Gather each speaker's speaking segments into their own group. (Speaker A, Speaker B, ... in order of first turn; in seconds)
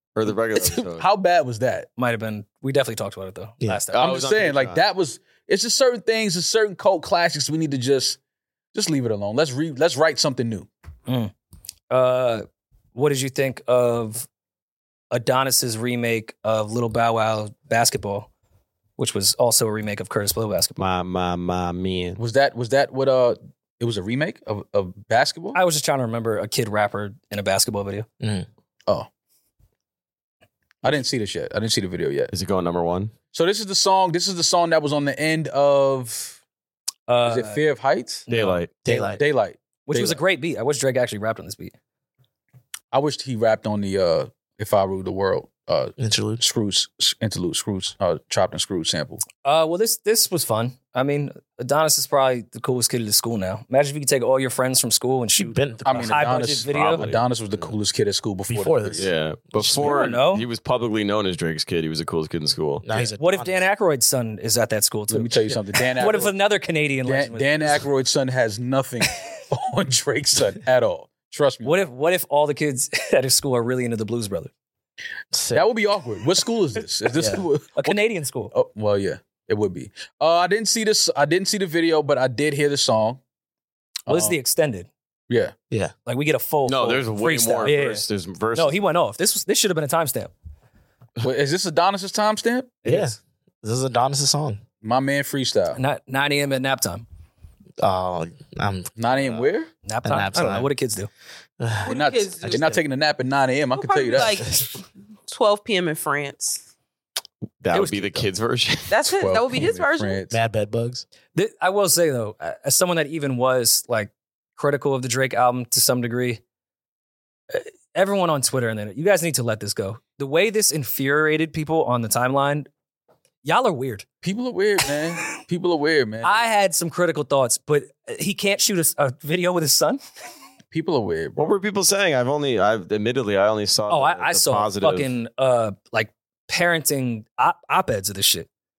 Speaker A: 0.1-1.0, 3.9-4.8, 20.8-22.2, 32.3-33.1, 38.3-38.7, 59.0-62.9, 86.7-88.8, 107.6-109.0, 131.4-135.1
Speaker B: 0.6-1.9, 4.0-8.2, 8.7-10.7, 22.2-25.6, 30.8-32.3, 33.3-36.4, 37.2-38.3, 38.9-40.2, 42.9-49.2, 55.8-59.1, 65.1-66.3, 67.0-71.7, 75.5-78.0, 78.5-83.2, 84.1-84.4, 85.3-85.5, 91.2-92.9, 94.8-95.8, 99.0-99.7, 101.9-104.4, 109.0-110.3, 124.2-126.4, 130.7-131.4
Speaker C: 2.0-4.1, 11.1-11.3, 11.9-14.3, 15.1-18.3, 19.0-20.8, 25.5-28.1, 37.1-37.6, 38.3-38.6, 39.9-41.7, 49.4-57.1, 59.7-60.5, 63.0-67.8, 71.6-74.5, 77.7-78.5, 84.1-84.9, 86.0-90.3, 92.9-93.1, 95.7-97.0, 99.8-101.1, 107.7-108.2, 111.3-116.4, 117.5-122.7, 123.4-124.0, 126.2-130.0, 133.9-138.5
Speaker D: 28.2-28.5, 38.8-39.2, 46.0-46.4, 55.4-56.2, 58.5-59.9, 62.8-63.6, 75.3-75.7, 77.1-77.4, 92.8-94.6, 97.8-99.4, 100.0-100.7, 101.6-102.8, 104.2-104.7, 110.3-111.0
Speaker E: 101.8-102.6, 103.7-104.6, 105.3-106.6, 108.9-110.2